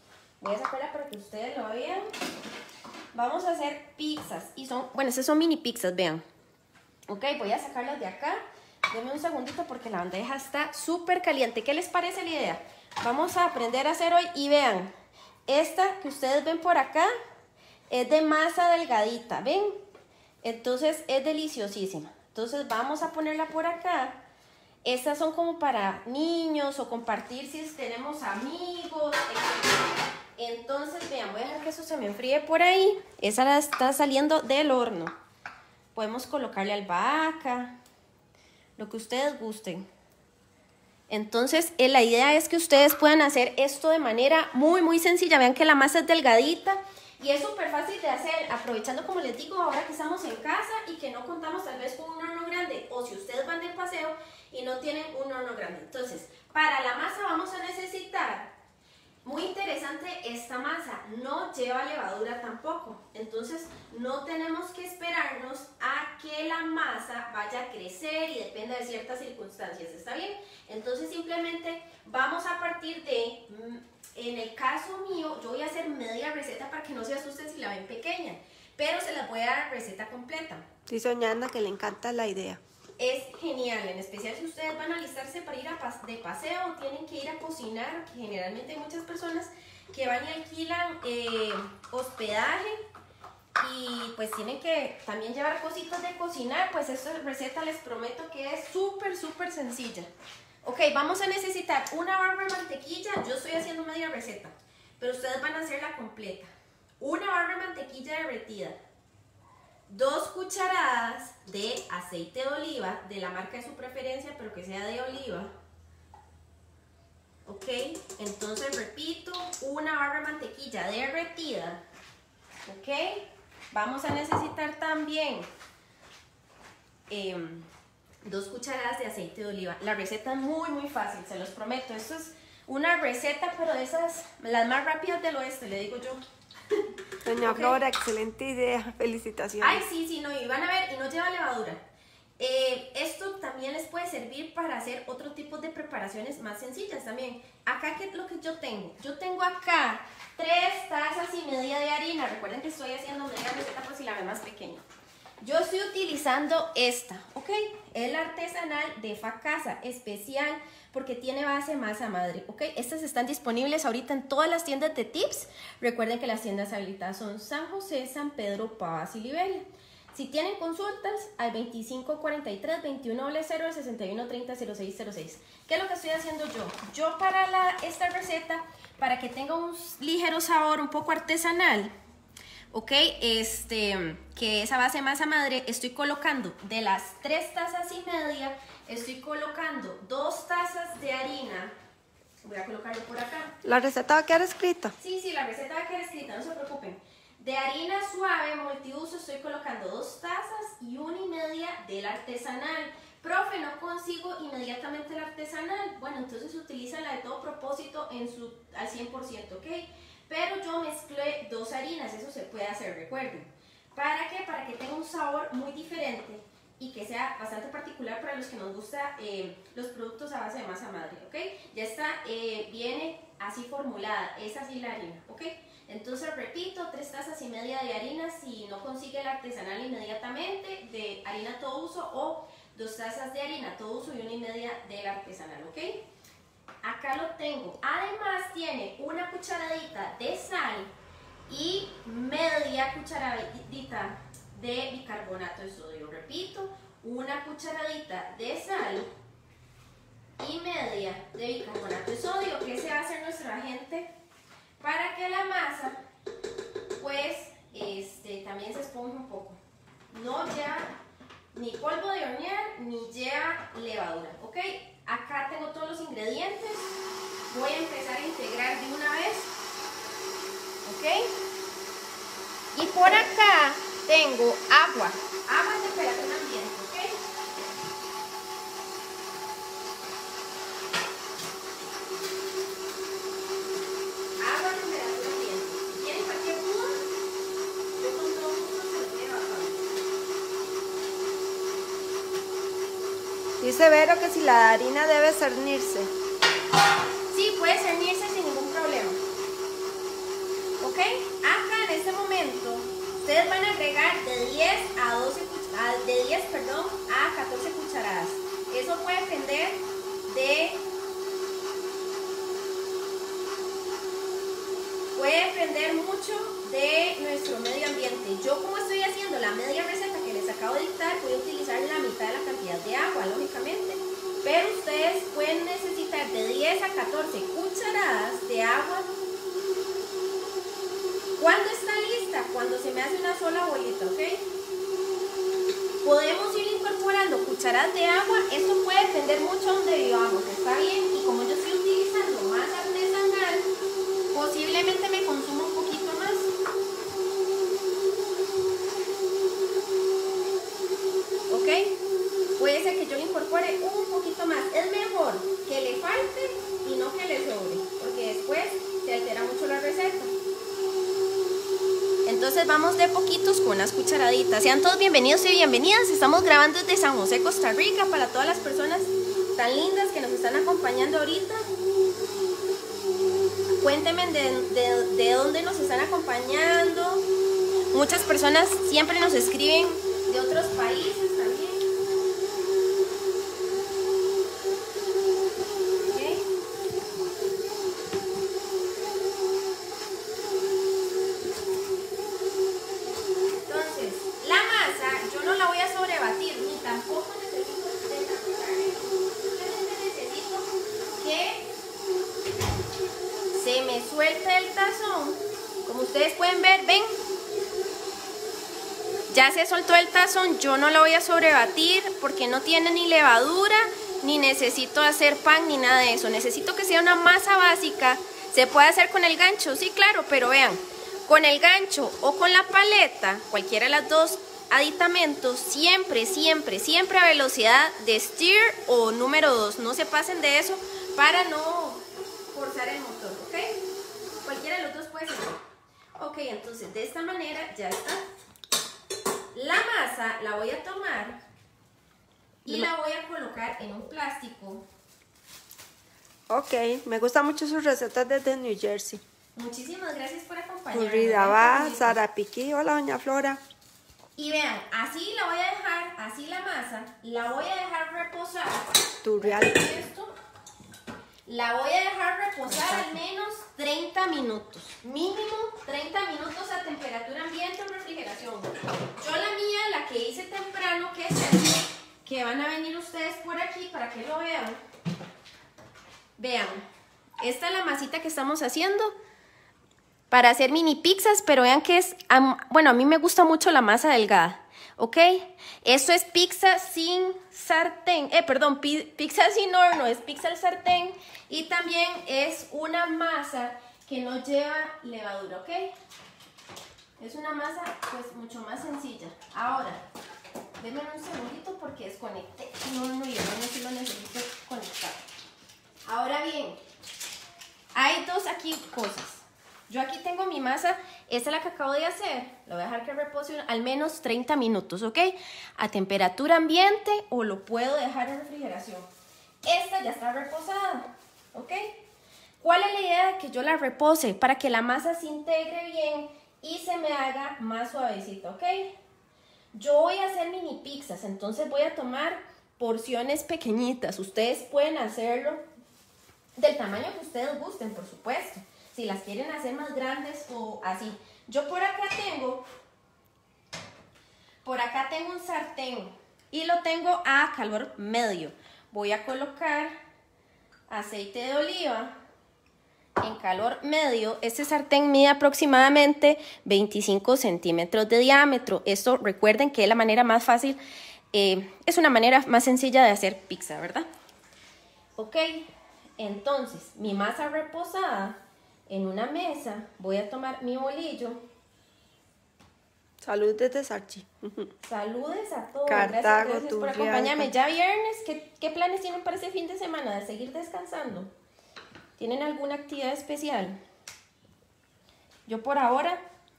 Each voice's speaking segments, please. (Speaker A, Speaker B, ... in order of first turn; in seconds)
Speaker A: 0.4-2.1, 3.1-6.2, 7.1-8.4, 8.9-14.9, 15.5-17.1, 17.9-19.8, 20.4-24.2, 24.8-29.8, 30.4-35.1, 35.9-37.8, 38.8-39.8, 41.1-58.5, 59.2-80.6, 83.0-92.8, 93.6-100.1, 100.6-106.5, 107.0-108.8, 109.9-115.5, 117.5-121.8, 122.6-125.5, 127.1-127.7, 128.2-136.8, 137.4-137.8, 139.6-141.8, 142.4-154.8, 155.4-181.9, 182.7-191.7, 192.4-193.5, 195.0-236.0, 236.8-240.9, 241.5-249.1, 250.4-254.1, 254.8-256.0, 257.0-259.6, 260.1-260.9, 261.5-266.9, 267.5-269.5, 270.8-271.3, 272.7-277.2, 284.4-287.1, 287.9-289.8, 297.3-299.2, 300.8-310.9, 315.1-329.1, 331.4-334.5, 336.0-343.7, 344.3-346.5, 351.5-351.9, 352.6-360.3, 362.2-371.6, 373.8-377.2, 377.9-381.8, 386.1-386.4, 393.6-400.7, 401.2-401.7, 403.5-407.1, 409.3-433.8, 434.4-435.6, 436.2-438.2, 439.5-441.4, 442.6-444.8, 449.6-452.2, 454.4-460.3, 461.4-474.8, 476.4-476.8, 477.4-479.1, 480.3-495.9, 497.2-500.0, 500.8-505.2, 506.1-506.8, 507.9-519.1, 519.6-522.0, 522.6-528.9, 529.7-535.6, 536.5-542.6, 544.6-549.9, 550.9-552.1, 553.2-560.8, 561.3-564.1, 565.2-565.7, 566.2-568.4, 568.9-571.4, 574.8-581.3, 582.2-583.8, 585.5-586.2
Speaker B: 80.9-82.6, 137.2-139.8, 193.6-194.9, 293.6-296.1, 446.5-449.2, 450.9-453.6, 459.2-459.8, 462.7-463.0, 573.2-574.7, 575.9-577.5